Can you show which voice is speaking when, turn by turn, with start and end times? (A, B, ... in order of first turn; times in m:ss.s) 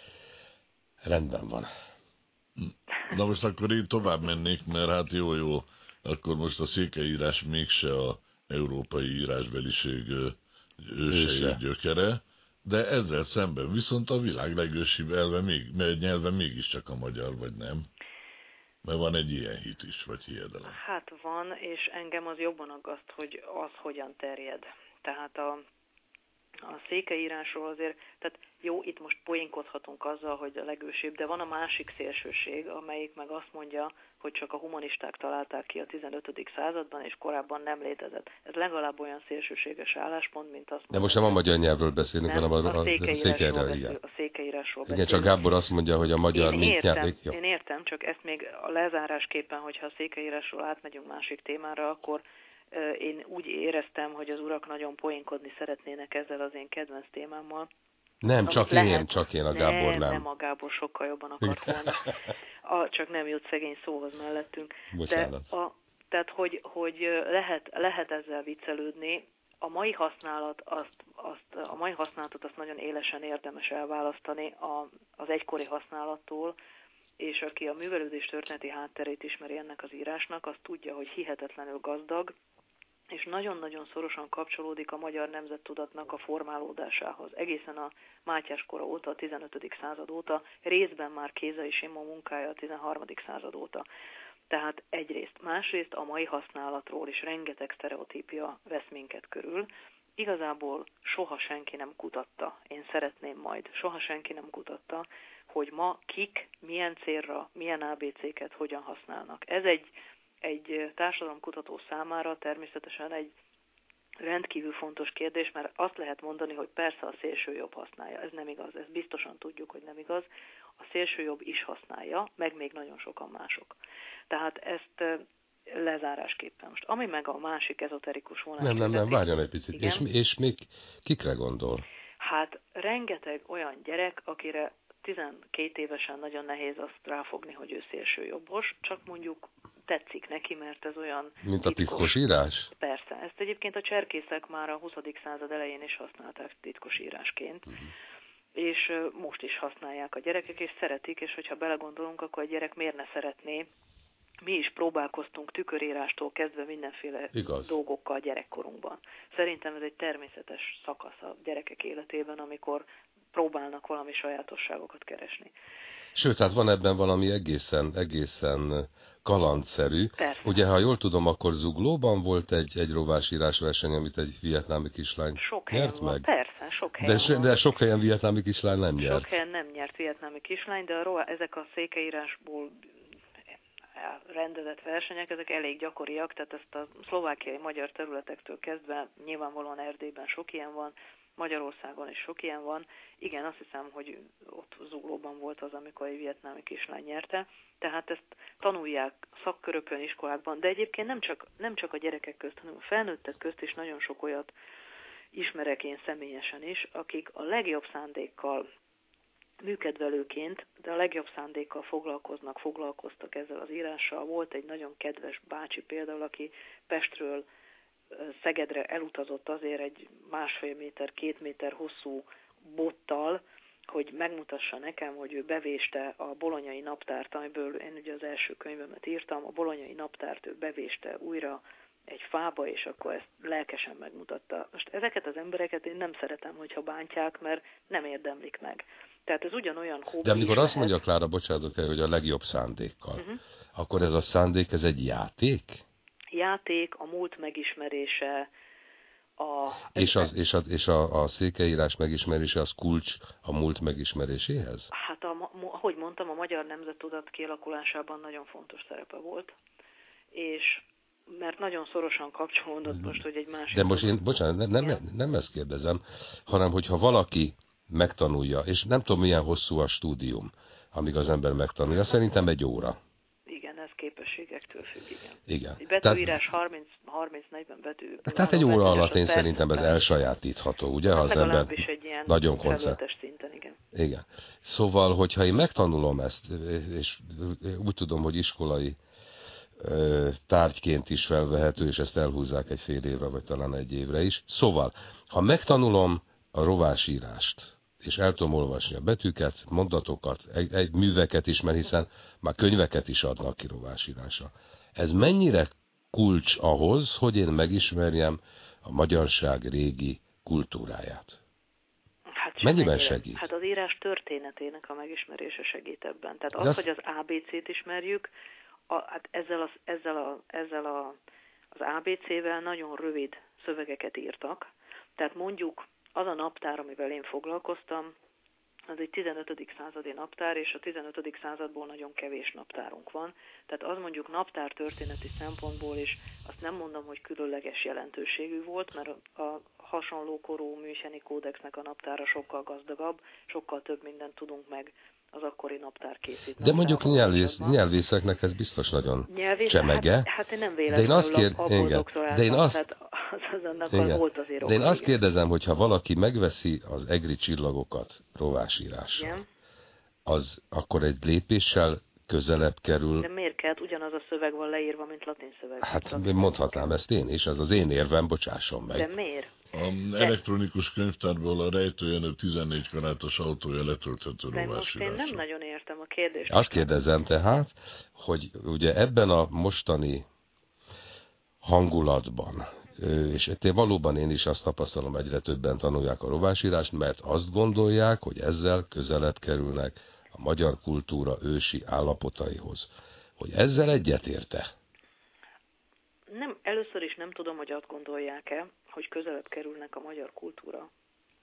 0:01.0-0:01.7 A
0:02.6-0:17.9 B
0:11.1-0:11.6 A
0:18.8-0:20.8 B
0:20.7-0:25.6 C
0:26.6-0:41.4 C
0:40.9-0:44.0 A
0:42.2-0:45.3 C
0:44.8-0:47.4 A
0:46.3-0:57.7 C
0:58.2-1:00.2 A
0:58.5-1:02.1 C
1:01.4-1:02.1 A
1:02.6-1:16.5 C
1:04.9-1:05.5 A
1:17.2-1:22.3 C
1:23.1-1:33.8 C
1:34.5-1:49.9 C
1:50.4-1:53.3 C
1:54.2-2:00.2 C
2:00.8-2:03.8 C
2:04.3-2:09.2 C
2:08.6-2:11.8 A
2:09.7-2:10.0 C
2:12.2-2:22.2 C
2:21.4-2:22.7 A
2:22.7-2:27.7 C
2:28.5-2:33.7 C
2:34.4-2:45.5 C
2:37.3-2:37.8 A
2:46.1-2:56.3 A
2:50.2-2:50.6 C
2:55.4-2:57.5 C
2:57.0-2:59.3 A
2:59.0-3:02.8 C
3:04.0-3:24.5 C
3:25.3-3:28.6 C
3:29.6-3:37.4 C
3:38.1-4:00.9 C
4:00.2-4:05.8 A
4:06.3-4:08.5 C
4:09.4-4:10.3 C
4:09.9-4:14.9 A
4:14.9-4:19.5 C
4:20.3-4:24.2 C
4:23.7-4:33.0 A
4:33.5-4:40.0 C
4:35.5-4:36.4 A
4:38.2-4:43.0 A
4:41.1-4:43.8 C
4:43.9-4:49.0 A
4:49.8-5:11.4 A
5:12.4-5:18.3 C
5:12.6-5:13.4 A
5:16.5-5:16.8 A
5:18.9-5:21.2 C
5:21.7-5:28.1 C
5:28.9-5:47.8 C
5:46.6-5:50.3 A
5:49.3-5:55.1 C
5:50.9-5:52.8 A
5:53.9-5:59.4 A
5:59.1-5:59.4 C
6:00.2-6:03.3 A
6:03.2-6:06.9 C
6:05.8-6:09.1 A
6:08.9-6:09.5 C
6:09.7-6:15.4 B
6:14.5-6:16.9 C
6:16.5-6:20.2 A
6:21.6-6:34.7 A
6:36.3-6:40.9 C